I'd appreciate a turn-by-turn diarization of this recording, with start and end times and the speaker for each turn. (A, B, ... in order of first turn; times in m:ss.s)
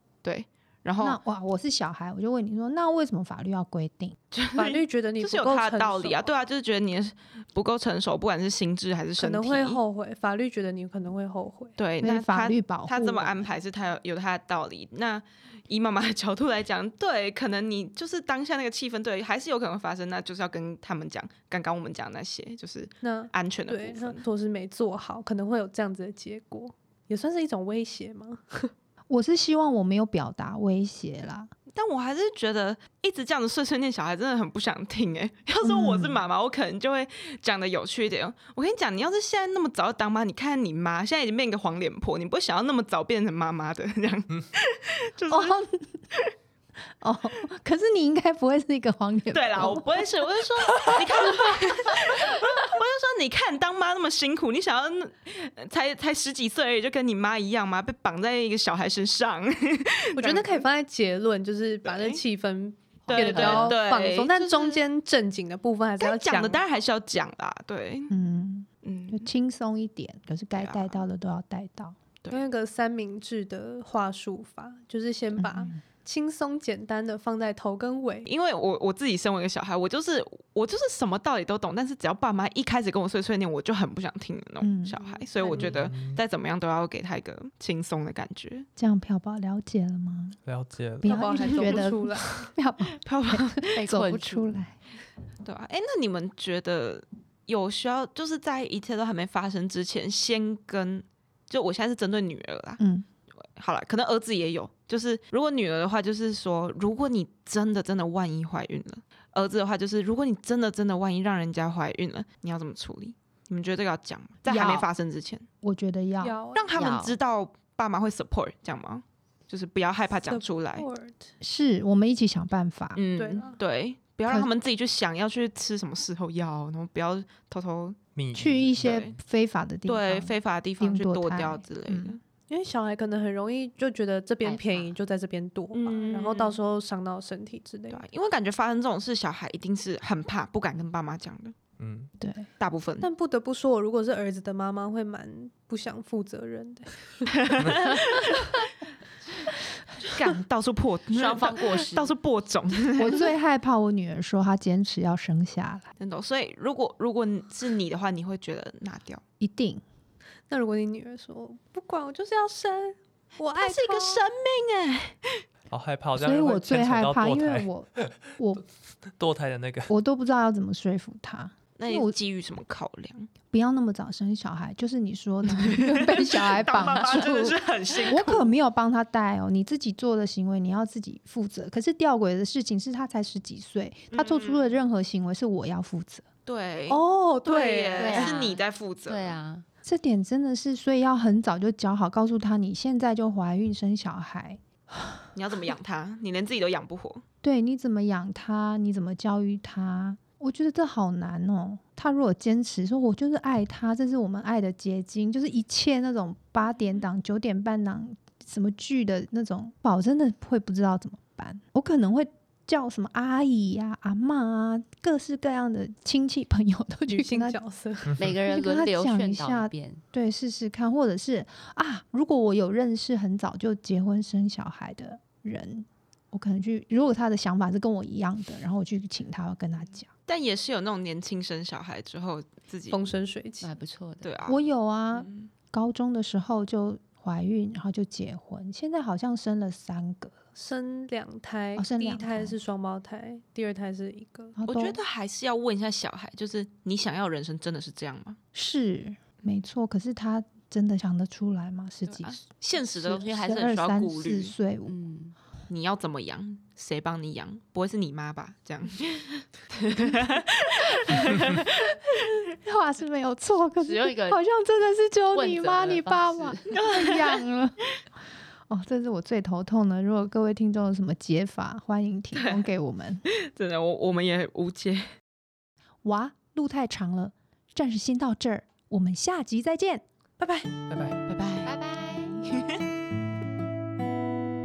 0:00.2-0:01.2 A
0:01.0-0:04.2 B
0:04.3-0:09.8 A
0:04.6-0:06.3 C
0:09.2-0:11.8 C
0:11.8-0:24.2 A
0:12.0-0:13.5 B
0:23.0-0:28.7 C
0:29.1-0:31.5 B
0:31.7-0:45.6 A
0:35.6-0:36.2 B
0:45.3-0:46.0 B
0:47.0-0:50.0 B
0:49.3-1:00.7 A
1:00.1-1:06.6 C
1:01.8-1:02.2 A
1:03.0-1:04.8 A
1:03.1-1:03.7 D
1:06.0-1:08.1 A
1:08.1-1:12.0 B
1:08.8-1:09.3 A
1:10.6-1:11.0 A
1:12.3-1:18.3 C
1:15.4-1:15.8 B
1:18.3-1:28.7 A
1:24.6-1:25.0 B
1:25.0-1:25.9 C
1:25.8-1:26.2 E
1:28.8-1:30.4 B
1:30.4-1:31.4 E
1:31.0-1:34.7 B
1:31.0-1:32.5 C
1:31.4-1:31.9 A
1:33.0-1:33.7 A
1:33.7-1:34.5 D
1:35.4-1:42.8 A
1:42.8-1:43.0 B
1:43.6-1:55.5 A
1:54.5-1:54.9 B
1:55.6-1:56.4 B
1:56.2-1:56.8 C
1:56.5-2:00.9 A
1:56.8-1:57.2 D
2:00.3-2:01.3 C
2:01.4-2:03.0 B
2:03.0-2:08.0 A
2:03.2-2:03.6 C
2:08.1-2:09.1 E
2:08.3-2:12.2 B
2:08.8-2:09.1 A
2:09.9-2:12.2 A
2:12.5-2:18.0 C
2:14.4-2:15.0 D
2:15.7-2:16.6 A
2:17.9-2:21.6 A
2:21.8-2:22.1 E
2:22.2-2:22.5 B
2:22.6-2:23.1 A
2:23.0-2:27.4 C
2:27.4-2:28.4 A
2:27.6-2:28.0 E
2:30.0-2:33.3 A
2:31.1-2:32.1 D
2:33.0-2:35.9 B
2:36.0-2:39.2 A
2:39.4-2:39.8 B
2:40.5-2:44.3 C
2:43.6-2:45.4 A
2:45.7-2:48.1 E
2:46.2-2:48.6 B
2:49.2-2:49.9 E
2:49.9-2:52.1 B
2:51.8-2:53.3 A
2:53.5-3:06.3 B
2:55.5-2:58.5 A
3:04.1-3:04.7 A
3:06.4-3:09.4 A
3:06.9-3:08.4 C
3:08.0-3:09.6 D
3:09.8-3:15.2 B
3:15.3-3:17.2 A
3:17.4-3:37.6 B
3:37.1-3:38.2 C
3:38.2-3:40.0 D
3:38.4-3:50.1 B
3:50.3-3:53.0 A
3:52.9-3:53.7 C
3:53.6-3:54.3 D
3:54.2-3:55.5 A
3:54.4-4:00.4 B
4:00.6-4:04.6 C
4:01.8-4:02.6 B
4:04.6-4:05.0 B
4:04.7-4:08.4 A
4:08.6-4:14.9 B
4:12.1-4:14.6 A
4:14.9-4:15.4 D
4:15.7-4:22.4 A
4:22.6-4:27.9 B
4:23.8-4:24.4 D
4:25.3-4:26.8 D
4:26.8-4:27.4 A
4:28.7-4:33.2 B
4:32.3-4:32.7 A
4:33.3-4:35.1 A
4:36.0-4:40.0 B
4:40.4-4:40.7 A
4:40.9-4:41.2 E
4:41.3-4:41.8 A
4:41.6-4:42.5 D
4:42.4-4:42.8 A